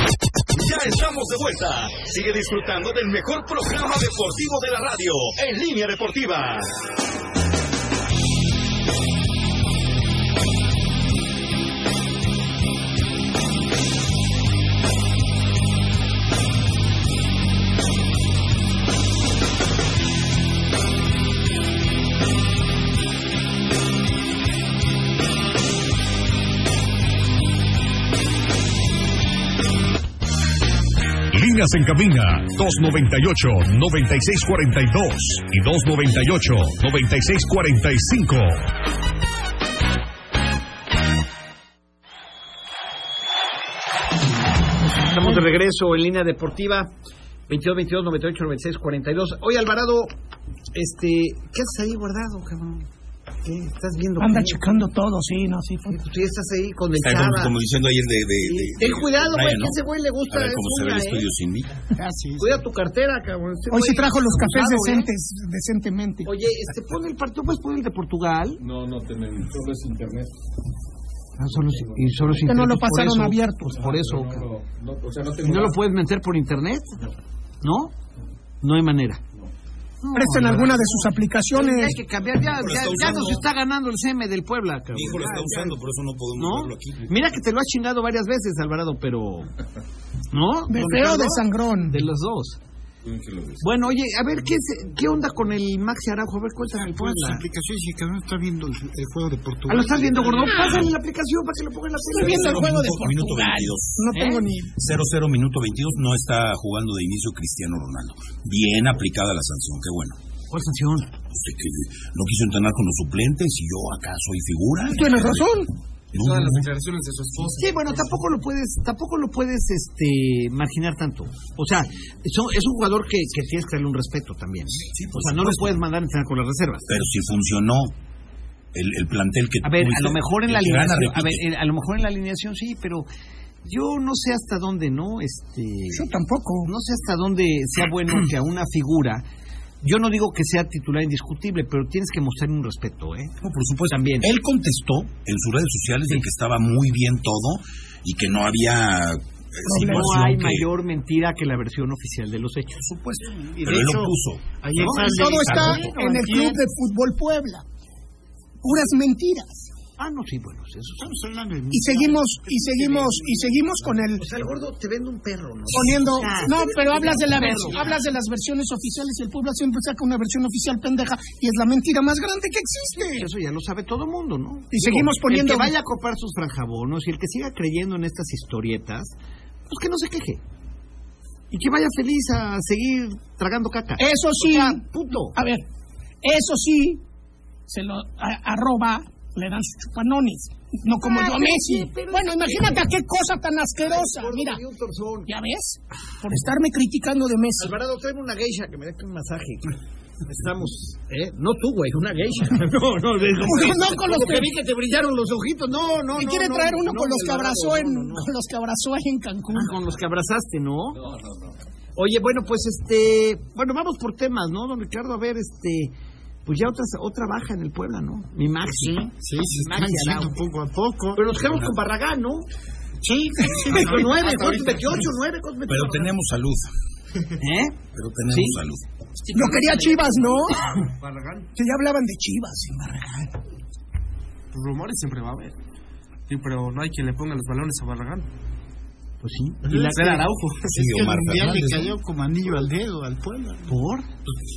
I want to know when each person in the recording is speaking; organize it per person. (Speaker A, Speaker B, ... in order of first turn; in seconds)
Speaker A: 0.5-6.7
Speaker B: 31.3-38.7
Speaker C: 44.9-46.9, 47.5-50.1, 50.7-52.9, 53.4-54.7, 55.9-57.5, 58.4-61.3, 62.4-65.1, 66.2-68.6, 71.4-74.5, 75.4-77.0, 77.6-78.0, 78.6-79.2, 80.0-85.7, 86.4-89.5, 90.3-92.6, 93.6-97.5, 99.7-102.7, 104.1-104.5, 110.5-111.1, 117.5-126.9, 129.6-133.1, 133.6-136.1, 136.6-139.2, 139.8-143.4, 143.9-144.3, 149.7-152.8, 154.8-155.9, 160.0-161.1, 164.2-167.9, 173.0-179.2, 179.7-180.4, 181.5-185.4, 191.0-192.9, 193.8-195.3, 197.6-208.3, 209.5-211.0, 212.0-215.9, 216.5-220.4, 221.2-222.5, 223.7-226.1, 227.4-227.8, 228.3-228.6, 229.3-230.7, 239.2-240.4, 243.7-244.1
Speaker D: 45.1-45.4, 54.2-56.0, 63.7-66.3, 72.5-73.8, 80.1-82.0, 90.7-92.0, 100.5-100.8, 102.1-104.7, 114.9-115.7, 135.9-136.7, 149.7-150.1, 154.9-157.6, 158.6-159.7, 161.7-164.3, 165.7-173.3, 174.7-175.8, 184.0-185.7, 186.2-187.0, 187.7-194.6, 195.3-197.8, 203.4-204.5, 206.2-209.8, 229.3-230.6, 231.6-233.4
Speaker E: 57.0-61.7, 82.5-83.5, 84.9-87.0, 100.6-100.9, 102.1-104.0, 104.8-110.2, 111.3-115.5, 116.1-116.7, 124.9-125.8, 126.9-127.9, 128.7-131.4, 143.4-150.7, 153.6-155.8, 225.7-226.7, 227.9-228.8, 240.7-241.9
Speaker F: 61.9-62.6, 96.7-100.5, 152.9-156.6, 161.0-164.2, 167.0-167.9, 218.7-221.3, 223.0-224.9, 239.7-244.3
Speaker G: 68.6-70.3, 71.4-72.6, 73.8-75.8, 93.0-93.6, 100.2-100.5, 211.0-211.6, 231.0-231.4
Speaker H: 116.1-118.2, 230.8-231.5, 234.5-235.6, 236.3-238.3, 239.8-240.6